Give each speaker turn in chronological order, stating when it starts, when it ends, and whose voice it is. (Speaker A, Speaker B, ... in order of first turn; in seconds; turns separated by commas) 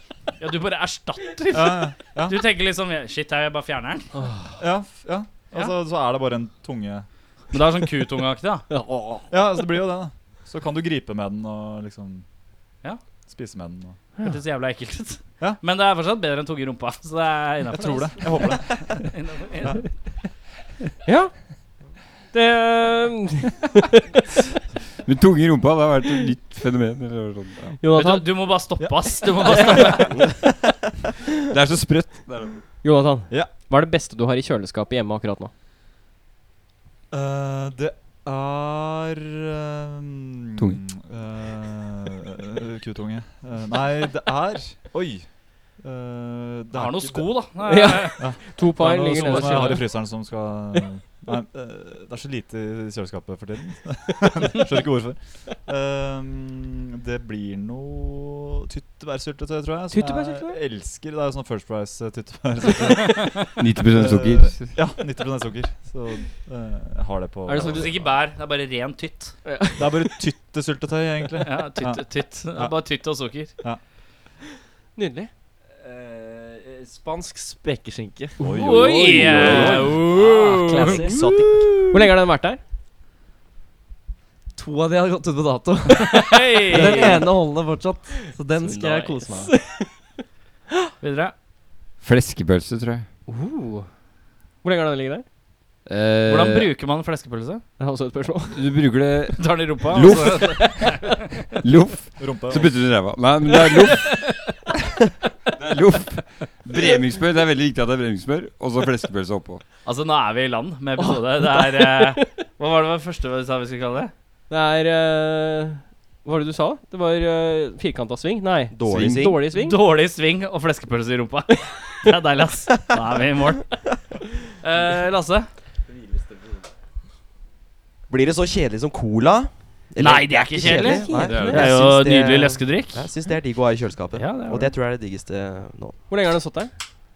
Speaker A: 0.4-4.1, Speaker B: 1.5-2.4, Speaker C: 4.2-4.5, Speaker B: 4.6-7.1, Speaker A: 7.5-8.7, Speaker C: 8.7-9.2, Speaker B: 9.3-12.2, Speaker B: 13.3-14.0, Speaker A: 14.2-19.8, Speaker B: 17.7-19.8, Speaker C: 21.1-21.3, Speaker C: 22.3-24.2, Speaker D: 25.1-27.7, Speaker C: 27.8-28.6, Speaker A: 27.9-30.1, Speaker B: 28.8-30.0, Speaker D: 31.5-32.7, Speaker C: 32.8-35.5, Speaker B: 37.1-45.3, Speaker B: 45.8-47.5, Speaker A: 46.7-48.2, Speaker C: 47.6-49.9, Speaker B: 48.1-68.2, Speaker A: 49.1-49.8, Speaker C: 59.9-60.6, Speaker D: 63.6-64.7, Speaker C: 67.5-67.9, Speaker A: 67.5-69.4, Speaker C: 69.5-70.2, Speaker B: 69.8-73.0, Speaker A: 71.4-73.5, Speaker B: 73.5-73.8, Speaker C: 75.0-75.3, Speaker E: 75.7-81.5, Speaker B: 78.4-80.0, Speaker A: 78.5-81.0, Speaker C: 79.0-79.9, Speaker F: 80.8-81.9, Speaker C: 80.9-82.6, Speaker E: 84.5-89.6, Speaker A: 86.3-87.2, Speaker C: 86.6-87.3, Speaker C: 88.4-90.1, Speaker A: 91.0-91.3, Speaker D: 92.0-93.1, Speaker C: 93.3-93.9, Speaker C: 94.6-95.2, Speaker D: 95.9-96.7, Speaker A: 96.3-97.6, Speaker C: 97.8-98.6, Speaker D: 98.5-101.0, Speaker A: 99.4-101.1, Speaker D: 101.6-104.3, Speaker B: 102.2-102.8, Speaker D: 105.6-109.6, Speaker A: 109.8-114.1, Speaker C: 111.0-112.2, Speaker C: 114.5-119.8, Speaker F: 118.7-119.4, Speaker A: 119.5-123.8, Speaker A: 124.6-125.5, Speaker E: 125.9-126.7, Speaker F: 128.1-136.0, Speaker A: 130.0-133.1, Speaker C: 130.6-131.7, Speaker D: 131.2-131.7, Speaker A: 134.2-134.7, Speaker C: 136.1-136.7